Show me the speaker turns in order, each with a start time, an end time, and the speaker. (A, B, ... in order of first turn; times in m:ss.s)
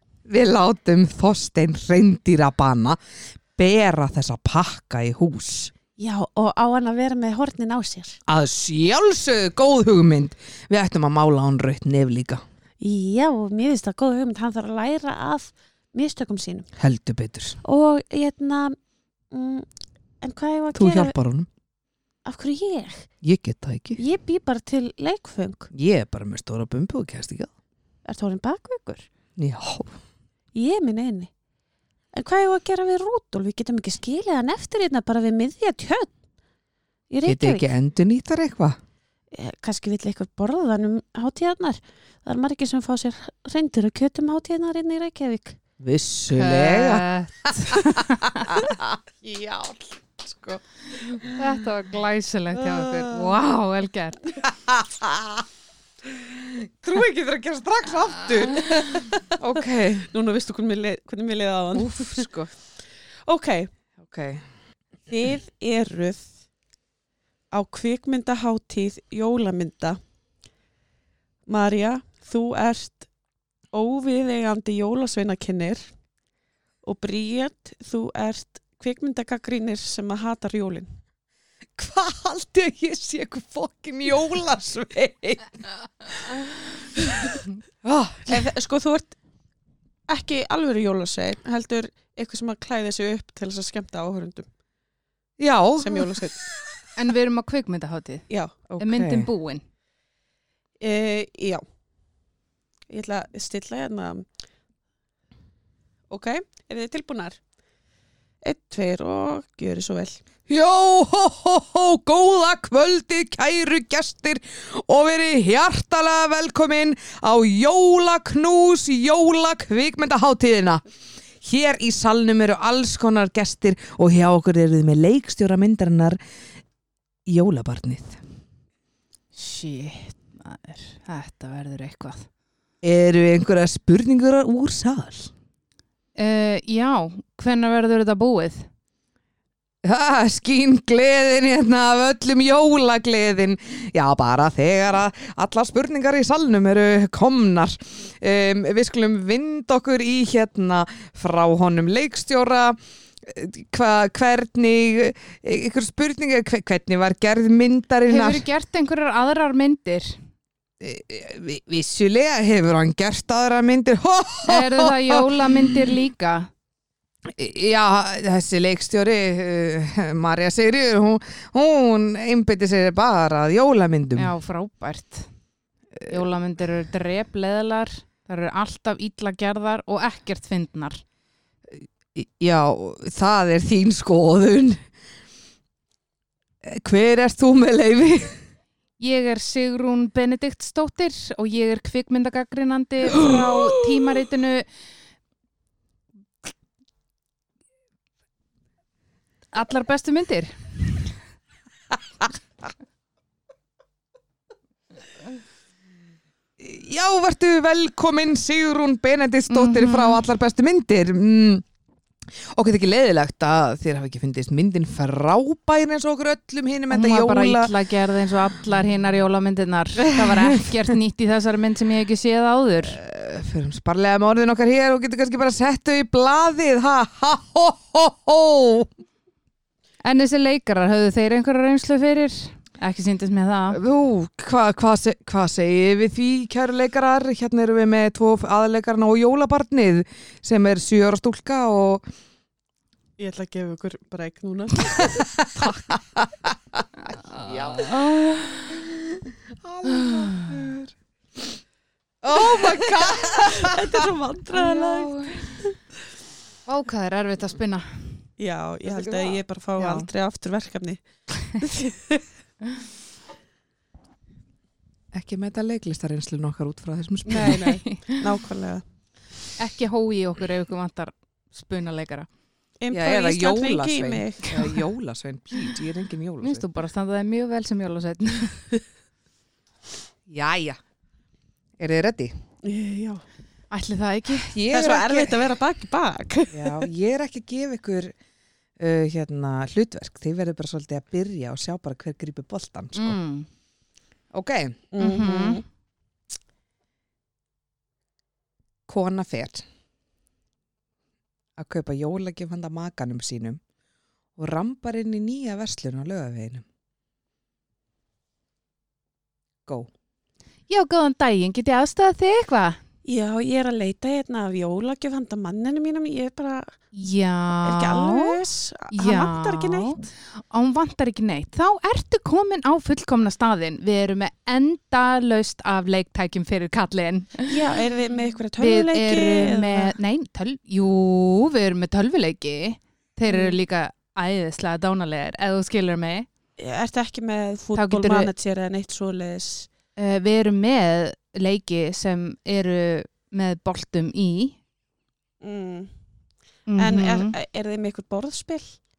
0:00.3-0:03.0 A
0:03.6-0:05.7 A
0:06.0-0:08.2 B
0:08.3-0:12.4 A
0:12.8-0:16.7 B
0:16.8-0:17.6 A
0:17.6-0:18.8 B
0:19.3-0:19.7 B
0:20.2-0:21.1 B
0:20.7-0:21.5 A
0:22.2-0:23.1 B
0:23.2-0:24.0 A
0:24.0-0:25.7 B
0:25.7-0:27.5 A
0:28.0-0:29.1 B
0:29.4-0:29.9 A
0:30.5-0:31.3 B
0:32.1-0:36.1 B
0:37.1-0:37.7 B
0:37.2-0:38.8 A
0:39.3-0:45.6 B
0:45.8-0:47.8 A
0:46.3-0:48.6 C
0:48.4-0:51.4 A
0:51.2-0:54.3 C
0:52.5-0:53.3 A
0:54.4-0:55.4 A
0:56.2-1:00.1 A
0:58.5-1:02.3 B
1:01.7-1:02.5 A
1:03.2-1:03.7 B
1:04.0-1:04.4 A
1:05.1-1:06.3 B
1:07.5-1:10.0 B
1:11.5-1:13.1 B
1:13.7-1:15.9 B
1:16.8-1:20.9 B
1:21.8-1:26.3 A
1:27.1-1:28.4 A
1:28.3-1:29.2 B
1:30.1-1:34.5 B
1:35.4-1:36.2 A
1:35.8-1:36.4 B
1:37.0-1:38.2 C
1:38.3-1:38.6 B
1:38.7-1:39.3 A
1:38.8-1:39.6 C
1:40.8-1:41.6 B
1:42.9-1:44.3 B
1:46.1-1:47.4 B
1:48.4-1:50.2 B
1:50.5-2:00.8 A
2:01.4-2:06.2 A
2:07.3-2:08.2 A
2:09.3-2:12.3 C
2:12.8-2:15.3 A
2:16.2-2:18.7 C
2:19.8-2:38.4 A
2:38.1-2:40.2 C
2:40.8-2:45.8 A
2:44.4-2:46.5 C
2:47.3-2:54.3 A
2:54.2-2:55.3 C
2:56.1-3:01.0 C
3:01.7-3:04.8 A
3:06.6-3:08.4 A
3:09.0-3:14.6 C
3:13.1-3:13.8 A
3:19.5-3:21.1 C
3:26.6-3:31.6 A
3:29.5-3:30.2 C
3:32.5-3:37.7 A
3:36.9-3:43.0 C
3:40.0-3:40.8 A
3:42.8-3:48.9 A
3:50.0-3:53.8 C
3:53.7-4:02.1 A
4:03.2-4:05.2 B
4:05.0-4:06.8 A
4:07.3-4:08.8 C
4:07.4-4:08.0 A
4:09.6-4:10.9 A
4:09.9-4:10.5 C
4:12.2-4:14.0 A
4:12.4-4:15.7 B
4:14.5-4:15.5 C
4:16.7-4:18.2 C
4:18.4-4:21.0 B
4:19.0-4:19.3 A
4:19.8-4:20.1 C
4:21.6-4:22.2 B
4:25.1-4:27.7 A
4:27.2-4:28.8 B
4:27.5-4:28.2 C
4:29.6-4:32.3 C
4:32.8-4:34.6 B
4:32.9-4:36.6 A
4:36.4-4:38.7 C
4:40.3-4:40.8 A
4:41.8-4:42.3 A
4:42.6-4:43.2 B
4:43.7-4:44.5 C
4:44.5-4:45.4 A
4:44.7-4:46.9 B
4:46.5-4:48.1 A
4:48.8-4:53.2 A
4:52.9-4:53.5 C
4:54.3-4:54.8 A
4:54.9-4:55.6 B
4:55.0-4:55.6 C
4:58.9-4:59.6 A
5:01.6-5:03.6 A
5:04.4-5:06.6 A
5:10.7-5:12.8 C
5:13.0-5:16.8 B
5:16.9-5:27.7 C
5:17.6-5:20.0 B
5:27.5-5:29.9 B
5:28.6-5:36.3 C
5:33.3-5:33.6 B
5:36.6-5:39.7 B
5:37.7-5:38.3 C
5:40.0-5:44.6 C
5:45.4-5:45.9 B
5:46.7-5:47.3 C
5:46.8-5:48.8 B